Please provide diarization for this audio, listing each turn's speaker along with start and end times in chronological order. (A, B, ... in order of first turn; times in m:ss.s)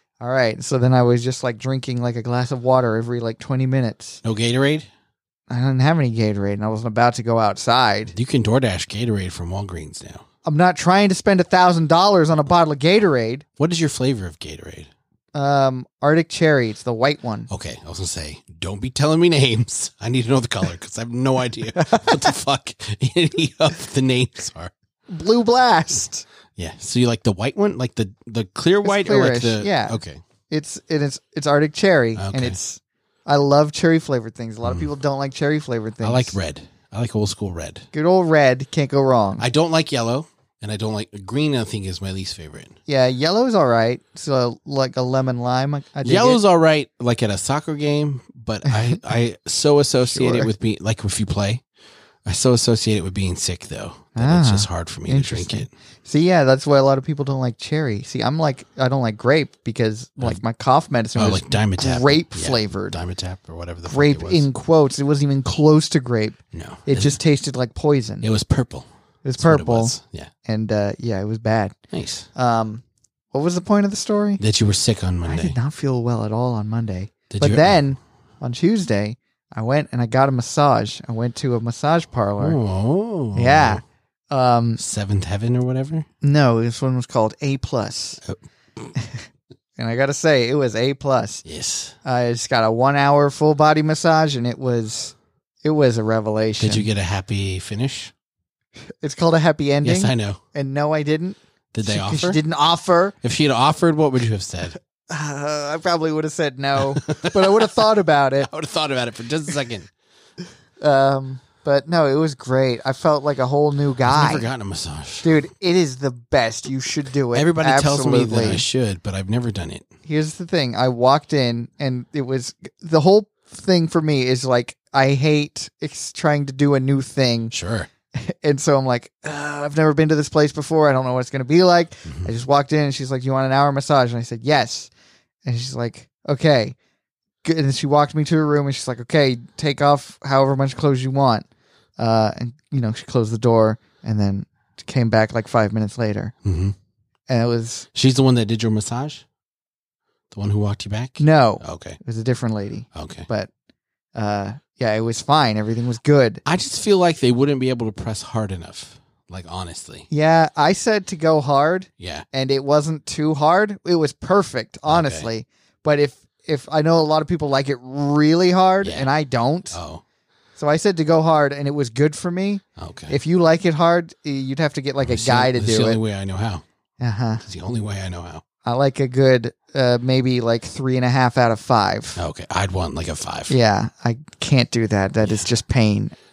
0:00.2-0:04.2 A
0:04.2-0:04.9 B
0:05.5-0:08.1 A
0:08.1-0:10.2 B
0:10.4-0:13.4 A
0:13.6-0:14.9 B
0:15.3-0:17.5 A
0:17.5-0:24.7 B
0:21.8-0:22.3 A
0:25.1-0:26.2 A
0:26.6-0:30.2 B
0:28.8-0:36.4 A
0:32.1-0:32.6 B
0:36.0-0:37.9 B
0:37.9-0:39.4 A
0:39.4-0:42.8 B
0:42.9-0:46.4 A
0:46.0-0:51.6 B
0:48.6-0:49.0 A
0:50.0-0:50.5 A
0:52.2-0:55.7 B
0:54.2-1:03.0 A
1:01.2-1:04.5 B
1:03.8-1:08.3 A
1:06.5-1:07.2 B
1:08.2-1:08.8 B
1:09.2-1:11.8 A
1:09.4-1:10.3 B
1:11.9-1:12.3 B
1:12.3-1:14.4 A
1:14.4-1:15.6 B
1:15.2-1:22.6 A
1:17.3-1:17.8 B
1:22.4-1:23.8 B
1:23.3-1:24.8 A
1:24.8-1:26.0 B
1:26.2-1:28.2 A
1:28.9-1:31.4 A
1:31.4-1:31.9 B
1:32.0-1:36.9 A
1:36.6-1:38.1 B
1:39.0-1:43.1 A
1:39.8-1:40.4 B
1:41.7-1:42.4 B
1:43.2-1:44.8 B
1:45.1-1:48.5 A
1:46.8-1:47.8 B
1:48.4-1:49.9 B
1:50.8-1:54.5 A
1:54.0-1:55.3 B
1:55.2-1:58.6 A
1:57.3-1:59.9 B
2:00.0-2:07.5 A
2:07.5-2:07.9 B
2:08.1-2:14.9 A
2:15.4-2:16.8 A
2:17.4-2:21.4 A
2:22.0-2:26.3 A
2:26.4-2:26.7 B
2:27.3-2:27.8 A
2:27.9-2:29.2 B
2:30.3-2:32.0 B
2:31.2-2:33.5 A
2:32.9-2:33.3 B
2:34.1-2:36.4 A
2:36.4-2:40.1 B
2:40.1-2:49.8 A
2:42.0-2:42.2 B
2:44.9-2:45.3 B
2:48.8-2:49.1 B
2:49.7-2:50.0 B
2:50.6-2:56.0 A
2:52.8-2:53.2 B
2:55.0-2:56.6 B
2:57.0-2:57.4 A
2:57.4-2:58.4 B
2:58.6-3:02.2 A
3:02.2-3:03.5 B
3:03.5-3:06.1 A